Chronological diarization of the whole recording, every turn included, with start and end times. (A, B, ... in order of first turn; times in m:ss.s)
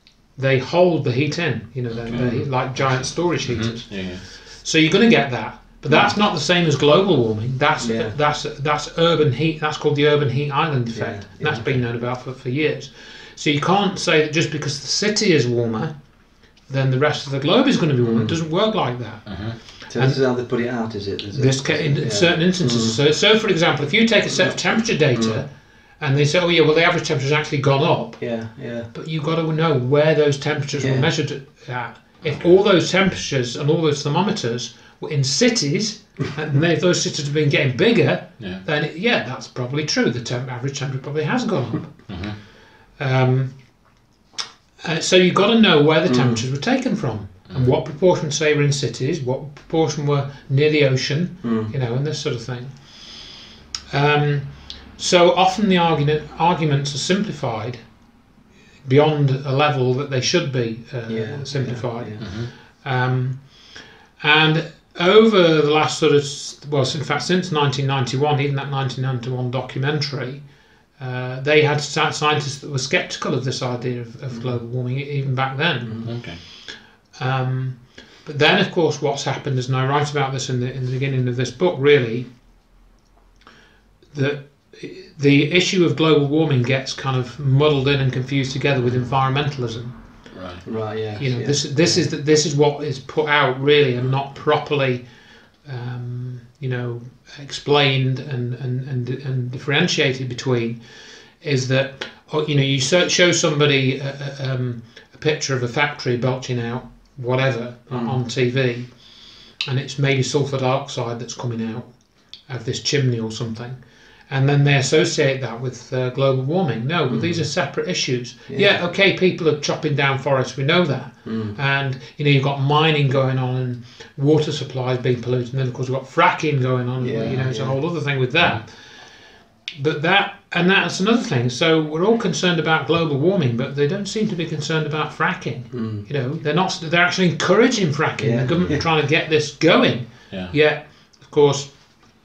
0:00.4-0:15.9 A
0:01.9-0:04.2 B
0:02.1-0:02.5 C
0:05.9-0:06.1 C
0:07.8-0:08.1 C
0:10.9-0:11.6 C
0:16.7-0:20.2 A
0:18.0-0:18.4 C
0:19.3-0:19.6 B
0:19.9-0:23.0 C
0:21.3-0:42.4 A
0:25.1-0:25.4 C
0:28.2-0:28.9 C
0:30.8-0:31.1 C
0:42.1-0:42.4 B
0:43.0-0:43.6 A
0:44.8-0:53.3 A
0:46.1-0:46.4 C
0:47.5-0:47.8 B
0:51.4-0:51.7 C
0:53.9-0:57.8 A
0:58.8-1:10.4 A
1:01.1-1:02.3 C
1:02.2-1:02.5 B
1:11.0-1:22.3 A
1:14.3-1:14.6 C
1:15.8-1:16.1 C
1:16.0-1:16.4 B
1:24.1-1:29.9 A
1:30.3-1:30.6 B
1:30.6-1:32.1 C
1:31.2-1:35.0 A
1:35.6-1:40.8 A
1:41.4-1:49.0 A
1:47.9-1:48.2 C
1:49.6-1:51.9 A
1:52.5-2:09.1 A
1:57.1-1:57.5 C
1:58.5-1:58.8 C
2:01.2-2:01.6 C
2:07.0-2:07.8 C
2:09.8-2:21.8 A
2:15.7-2:16.1 C
2:18.2-2:18.9 C